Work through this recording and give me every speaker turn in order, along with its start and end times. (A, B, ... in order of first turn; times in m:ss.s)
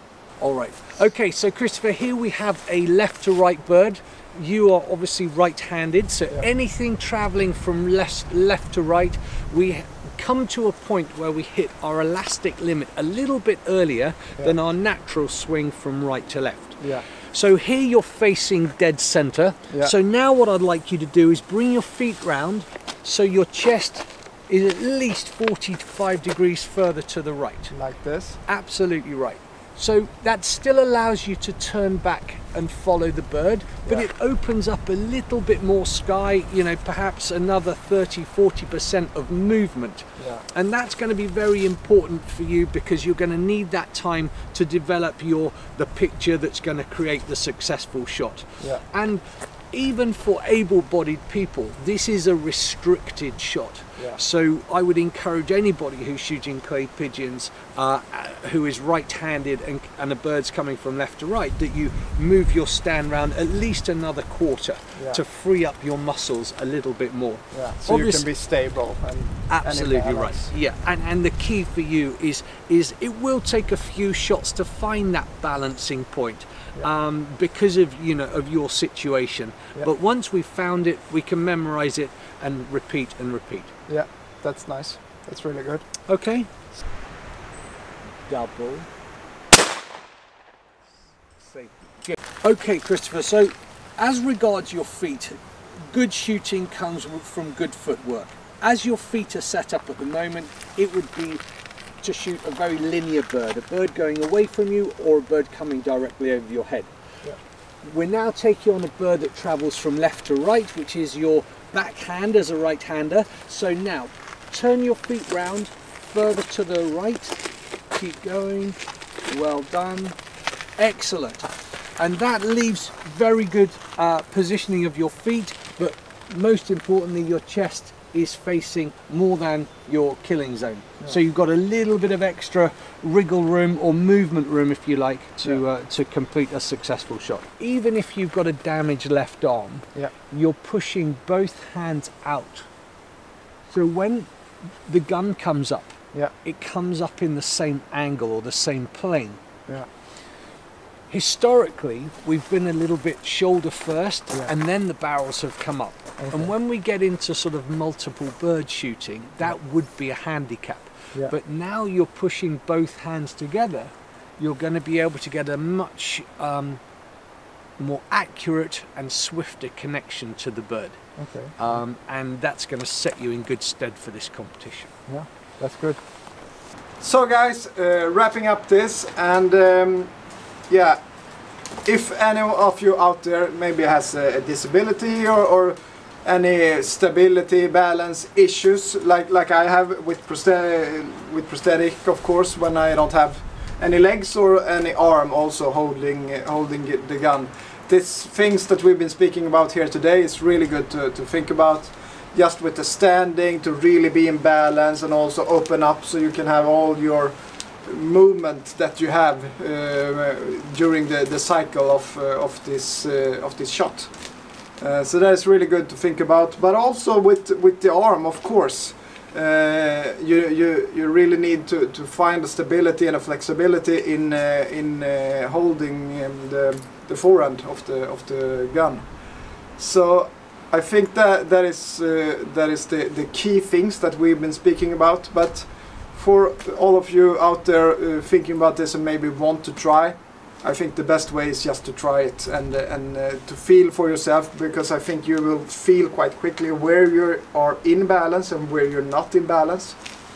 0:00.4-0:27.7 A
0:16.8-0:17.1 B
0:19.7-0:20.0 B
0:27.7-0:28.4 B
0:28.5-1:08.3 A
0:40.2-0:40.4 B
1:05.0-1:05.2 B
1:07.5-1:10.5 B
1:09.5-1:23.7 A
1:23.9-1:25.8 B
1:26.1-1:26.5 A
1:28.3-1:28.9 A
1:31.4-1:41.4 A
1:42.0-1:46.9 A
1:47.8-2:00.2 A
2:00.8-2:22.7 A
2:23.7-2:24.3 A
2:24.9-2:29.4 A
2:31.1-2:46.8 A
2:36.2-2:36.5 B
2:47.8-2:51.0 A
2:51.2-2:51.6 B
2:51.6-2:54.9 A
2:55.1-2:56.0 B
2:57.0-3:00.1 B
3:00.7-3:01.0 B
3:01.8-3:34.1 B
3:34.8-3:49.1 B
3:49.8-4:10.0 B